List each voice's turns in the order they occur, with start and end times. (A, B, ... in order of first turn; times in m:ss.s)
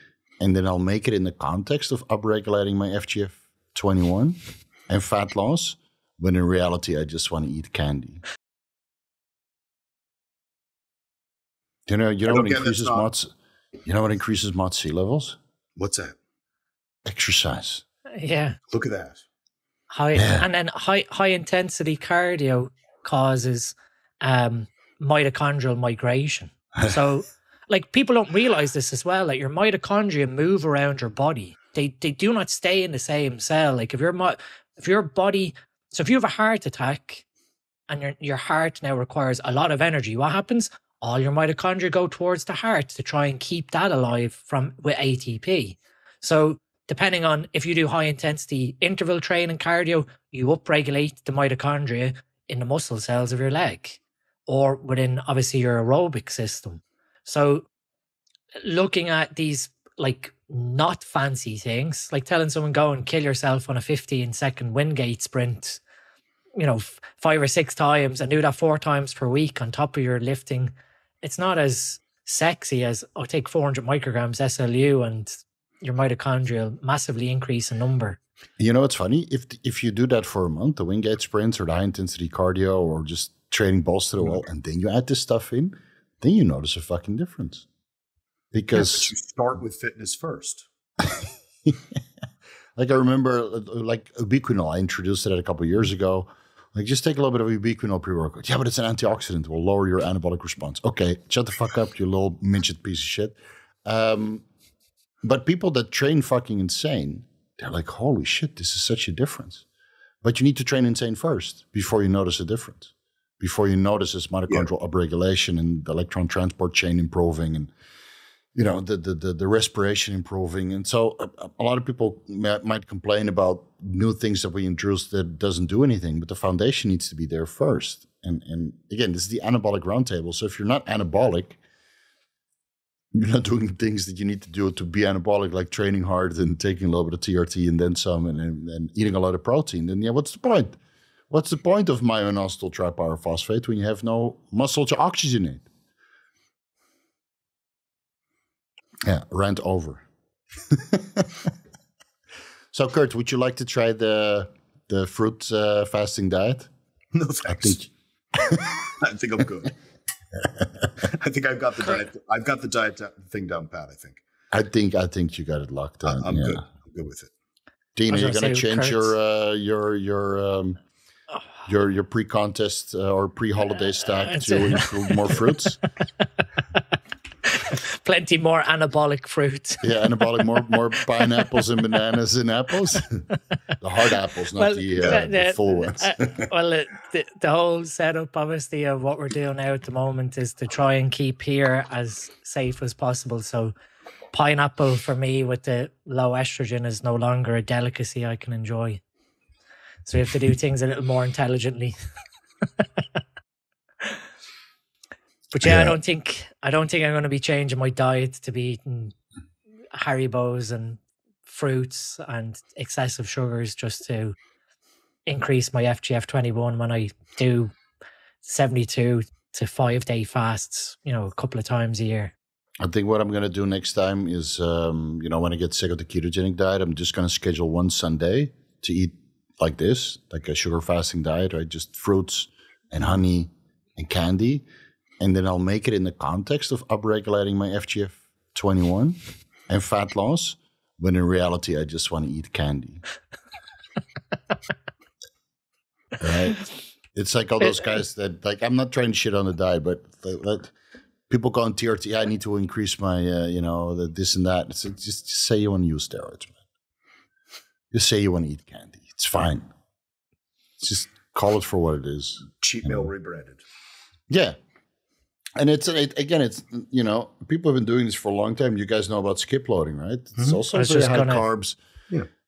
0:00.4-0:04.4 A
0:04.9-0:08.2 A
0:11.9-0:13.3 A
0:12.3-0:13.1 B
0:13.8-0:15.4 A
0:15.8-0:16.2 B
0:17.0-0:17.8 A
0:18.2-0:18.6 C
0:18.7-0:19.2 B
0:19.9-0:37.2 C
0:20.2-0:20.5 A
0:37.9-0:57.7 C
0:58.6-1:05.8 C
1:06.6-1:18.2 C
1:18.6-1:27.7 A
1:28.5-1:29.1 A
1:28.7-1:30.7 B
1:32.8-1:44.4 A
1:45.2-1:49.6 A
1:50.2-1:57.7 A
1:58.5-2:11.6 A
2:13.1-2:20.8 A
2:21.3-2:25.7 A
2:29.1-2:30.0 A
2:30.7-2:31.3 A
2:32.7-2:36.7 A
2:37.1-2:37.8 B
2:37.5-2:38.8 A
2:39.0-2:39.7 B
2:41.0-2:44.2 B
2:44.5-2:46.6 A
2:46.0-2:47.3 B
2:48.0-2:50.8 A
2:48.1-2:49.1 C
2:51.6-2:55.8 A
2:54.2-2:55.4 C
2:57.5-3:00.0 C
2:59.8-3:03.2 A
3:03.8-3:06.1 A
3:04.6-3:13.7 C
3:05.0-3:05.2 B
3:14.3-3:19.0 C
3:20.1-3:22.0 C
3:25.5-3:29.1 C
3:25.6-3:26.0 A
3:29.9-3:34.4 C
3:35.2-3:37.7 C
3:38.4-3:42.3 C
3:42.8-3:54.7 A
3:55.2-3:59.2 A
3:59.7-4:03.0 A
4:06.2-4:10.7 A
4:11.3-4:16.6 A
4:17.9-4:19.7 A
4:20.8-4:23.1 A
4:22.6-4:23.6 B
4:24.3-4:24.6 A
4:25.6-4:31.8 A
4:30.7-4:31.4 C